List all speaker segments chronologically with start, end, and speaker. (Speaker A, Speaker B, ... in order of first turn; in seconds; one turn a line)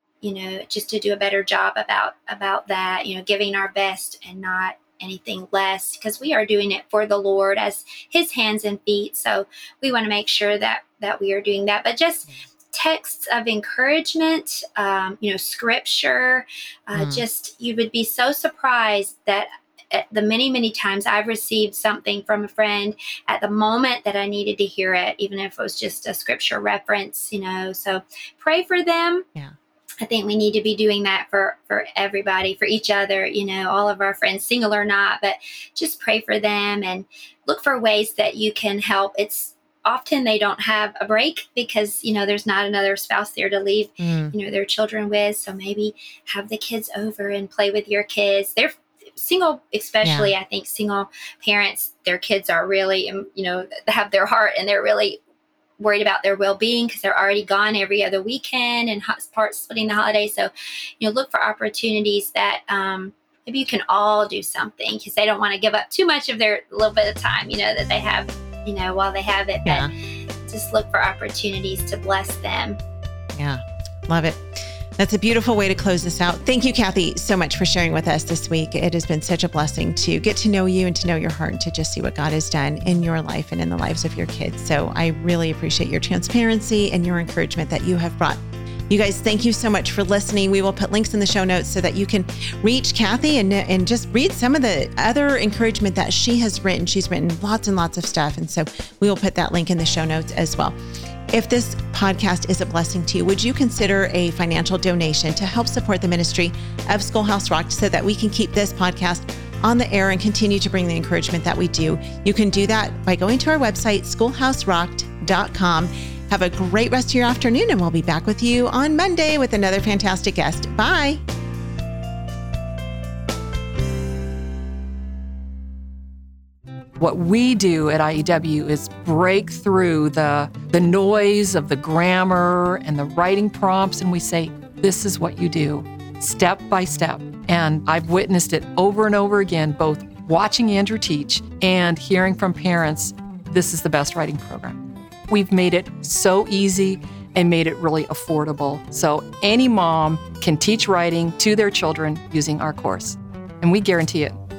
Speaker A: 0.3-29.3
Speaker B: 17.0-17.2
Speaker A: 30.0-55.2
Speaker B: 44.0-44.3
Speaker B: 50.0-50.3
Speaker A: 55.8-60.5
Speaker A: 61.0-69.9
Speaker A: 70.5-72.8
Speaker B: 73.4-74.4
Speaker B: 75.0-100.8
Speaker B: 101.3-121.2
Speaker C: 127.0-154.4